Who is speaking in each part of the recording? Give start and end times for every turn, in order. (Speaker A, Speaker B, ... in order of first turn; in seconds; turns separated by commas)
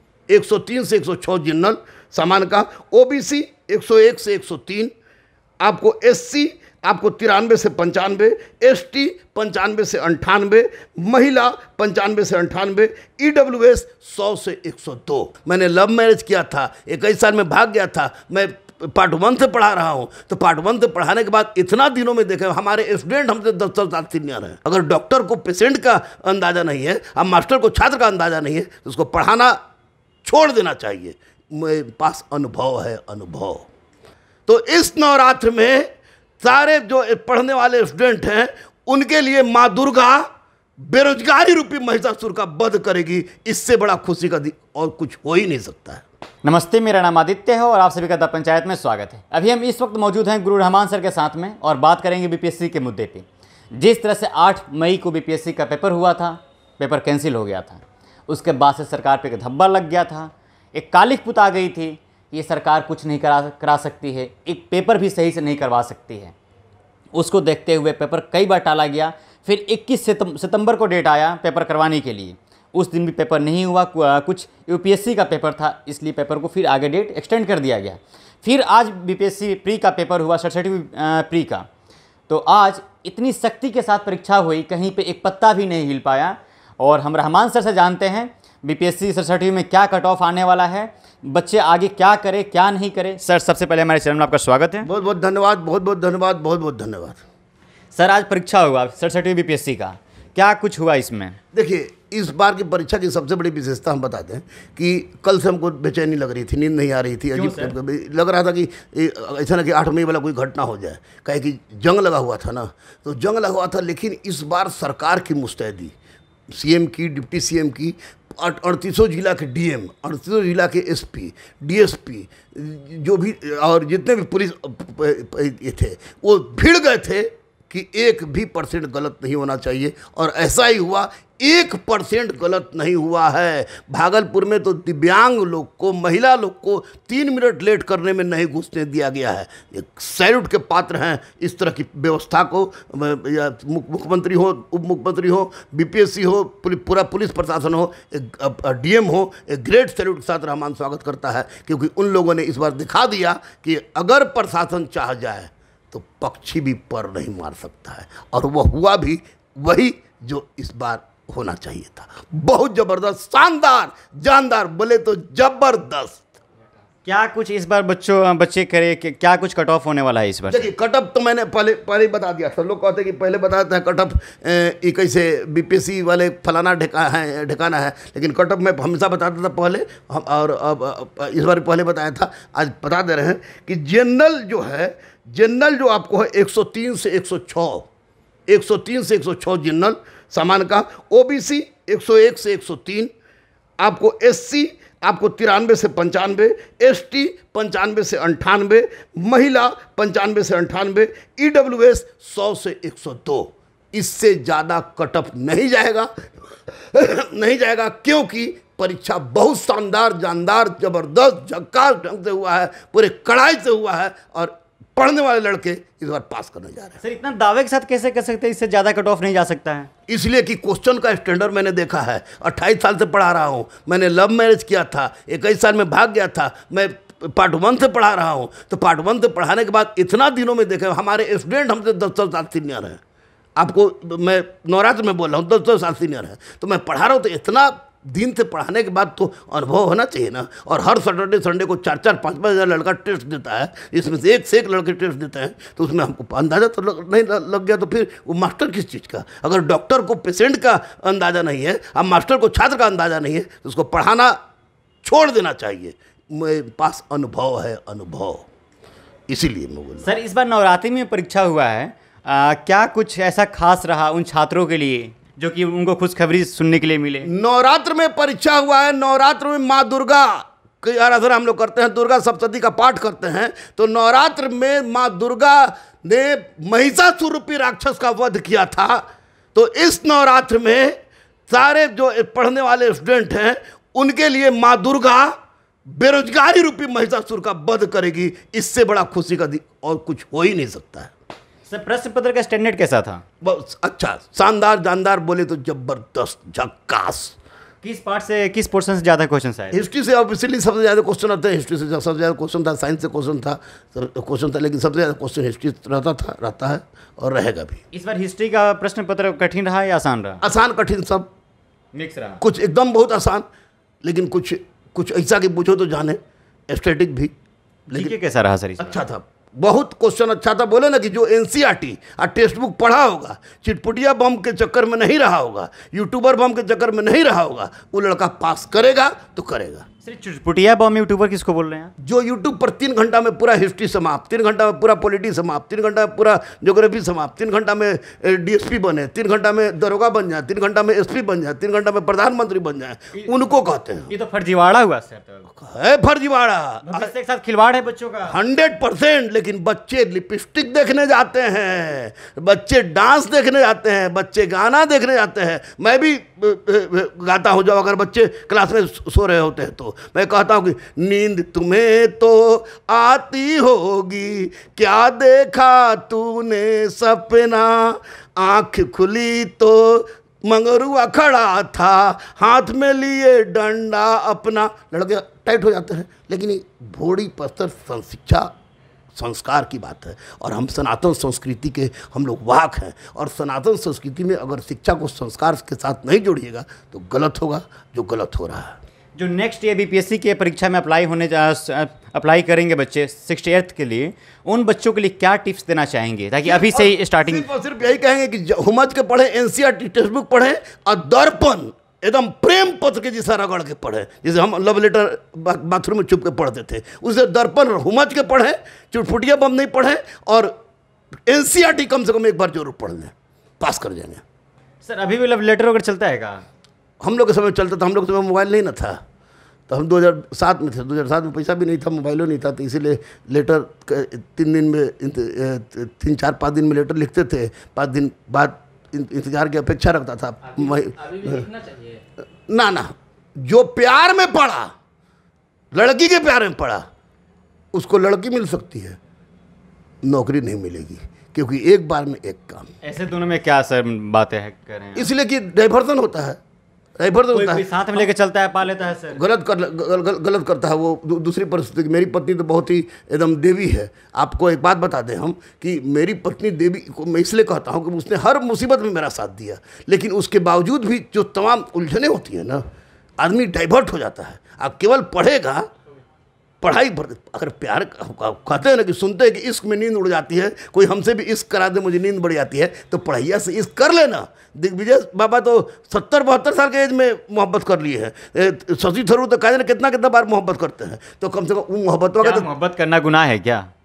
Speaker A: 0.3-4.9, Speaker A: 5.6-29.6, Speaker A: 30.2-33.7, Speaker A: 34.5-40.3, Speaker A: 40.8-46.0, Speaker B: 46.4-66.3, Speaker B: 67.1-81.7, Speaker B: 82.3-94.9, Speaker A: 94.8-97.2, Speaker B: 97.9-101.4, Speaker A: 101.5-115.9, Speaker B: 107.3-107.7, Speaker A: 116.5-166.3, Speaker B: 167.0-170.7, Speaker A: 170.5-187.9, Speaker A: 188.5-193.1, Speaker A: 193.8-206.1, Speaker A: 206.7-217.0, Speaker B: 217.0-219.9, Speaker A: 220.1-233.0, Speaker A: 233.6-254.3, Speaker A: 255.0-258.4, Speaker A: 259.3-260.1, Speaker B: 260.0-267.3, Speaker A: 267.2-281.0, Speaker A: 281.5-285.3, Speaker A: 285.9-291.1, Speaker B: 291.7-293.2, Speaker A: 293.4-297.4, Speaker B: 297.8-299.8, Speaker A: 299.7-307.8, Speaker B: 307.9-310.4, Speaker A: 310.4-311.3, Speaker B: 311.9-312.4, Speaker A: 312.4-313.4, Speaker A: 314.0-316.2, Speaker A: 316.7-317.3, Speaker B: 317.9-319.0, Speaker A: 318.8-329.9, Speaker B: 330.0-331.9, Speaker A: 332.0-344.1, Speaker B: 344.1-345.5, Speaker A: 345.5-347.1, Speaker B: 346.8-348.4, Speaker A: 348.3-378.5, Speaker A: 379.1-388.8, Speaker B: 389.1-397.4, Speaker A: 396.4-410.5, Speaker A: 411.3-414.2, Speaker B: 414.8-416.4, Speaker A: 417.0-419.0, Speaker A: 419.7-431.5, Speaker A: 432.5-434.7, Speaker A: 435.7-436.8, Speaker A: 437.7-439.0, Speaker A: 440.0-442.7, Speaker B: 442.8-445.1, Speaker A: 444.9-446.4, Speaker A: 447.0-447.6, Speaker B: 447.3-449.2, Speaker A: 449.1-462.6, Speaker A: 463.2-465.7, Speaker A: 466.6-482.5, Speaker B: 482.2-483.7